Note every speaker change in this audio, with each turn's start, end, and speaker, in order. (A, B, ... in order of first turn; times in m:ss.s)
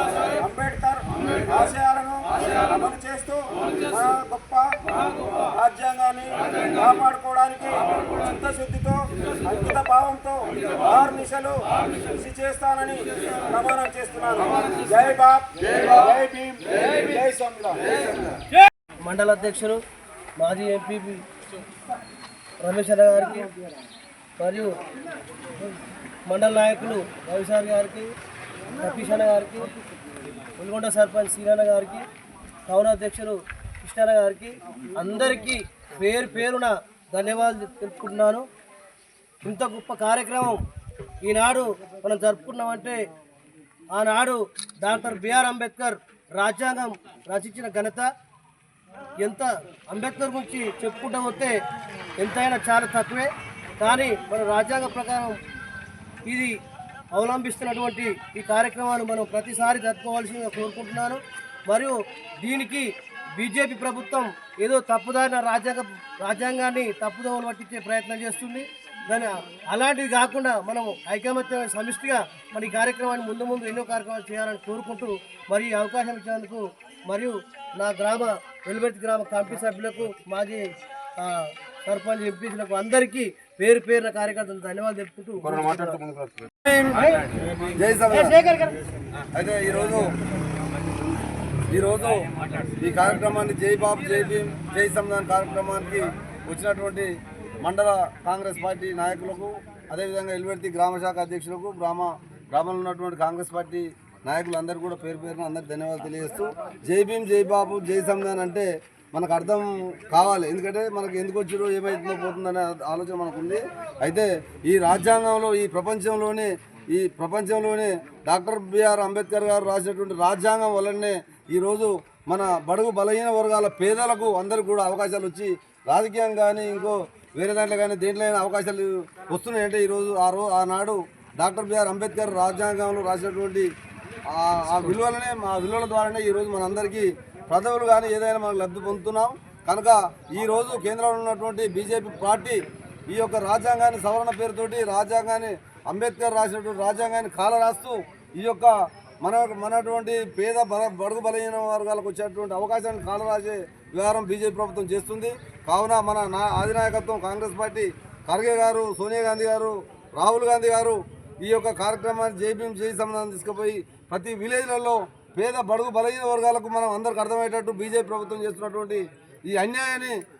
0:00.4-0:04.7 A
0:05.5-0:17.8 A
0:19.0-0:19.8 B
0:20.4-0:21.2 B
0:22.6-0:23.5 B
0:24.4-0:24.7 B
0:26.2-0:28.1 B
0:28.8-0:29.7 B
0:30.6-0:32.0 B
0:32.7-0:38.4 B
0:39.4-0:40.6 B
0:41.2-0:43.0 B
0:43.9-0:48.1 B
0:49.2-0:51.6 B
0:52.2-0:55.4 B
0:56.2-0:56.6 B
0:57.1-1:26.0 B
1:25.4-1:26.5 A
1:26.8-1:27.2 B
1:27.7-1:28.3 C
1:28.1-1:28.8 B
1:29.3-1:30.1 C
1:31.7-1:32.2 C
1:32.8-2:13.7 C
2:14.3-2:50.2 C